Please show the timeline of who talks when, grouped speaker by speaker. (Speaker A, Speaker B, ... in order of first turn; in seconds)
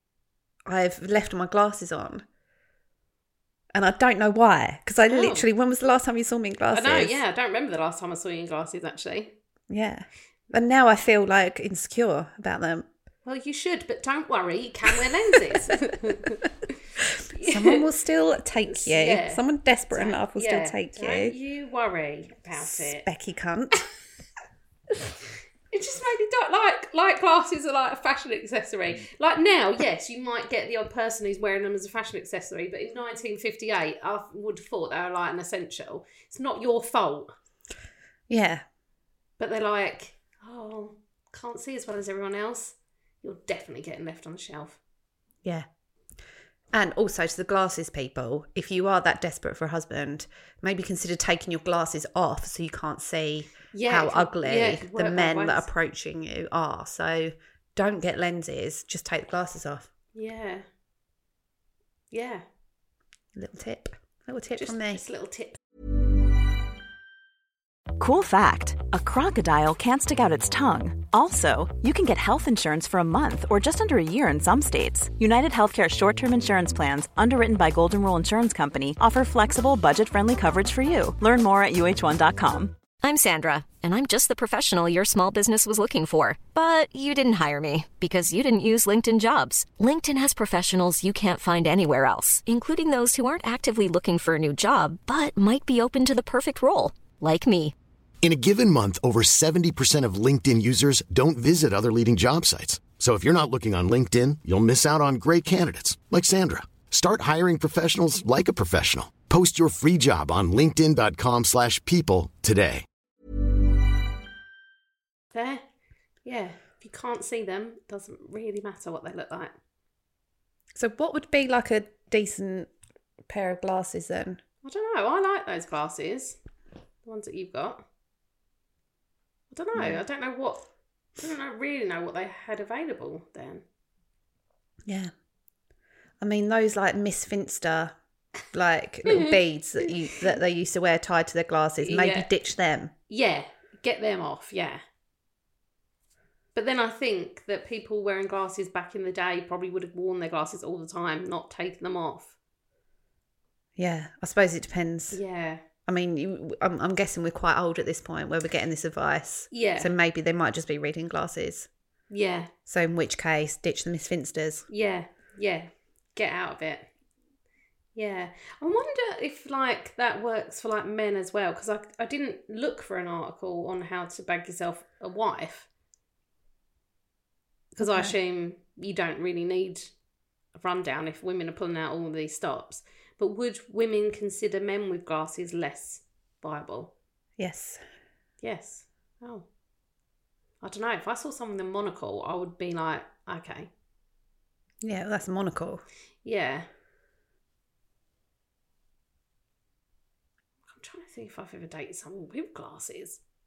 Speaker A: 0.7-2.2, 3.7-7.2, 9.7-12.9, 17.4-21.4, 22.6-23.8, 38.3-38.6, 46.7-59.9, 63.4-65.0, 120.8-122.7, 123.3-124.4, 129.8-130.0, 134.9-135.1, 136.2-137.9, 138.5-142.9, 153.8-155.2, 155.9-161.7, 162.7-164.6, 177.8-178.1, 187.4-187.8, 194.8-195.8
Speaker B: 5.1-5.5, 6.7-9.3, 13.2-16.7, 17.3-17.9, 18.6-23.1, 25.7-37.3, 39.4-44.8, 53.7-55.7, 60.1-60.7, 62.1-62.5, 64.6-65.6, 115.3-115.7, 116.2-119.5, 124.6-126.4, 127.0-127.8, 129.5-130.6, 131.2-133.6, 139.1-139.9, 141.8-142.3, 143.1-144.8, 146.5-152.3, 155.1-155.6, 159.5-159.9, 162.1-162.5, 164.7-166.9, 168.0-175.7, 177.8-179.9, 180.6-186.9, 188.4-189.5, 190.6-193.7, 196.2-196.7, 200.7-203.2
Speaker C: 68.0-82.8
Speaker D: 83.0-97.8
Speaker E: 98.2-112.9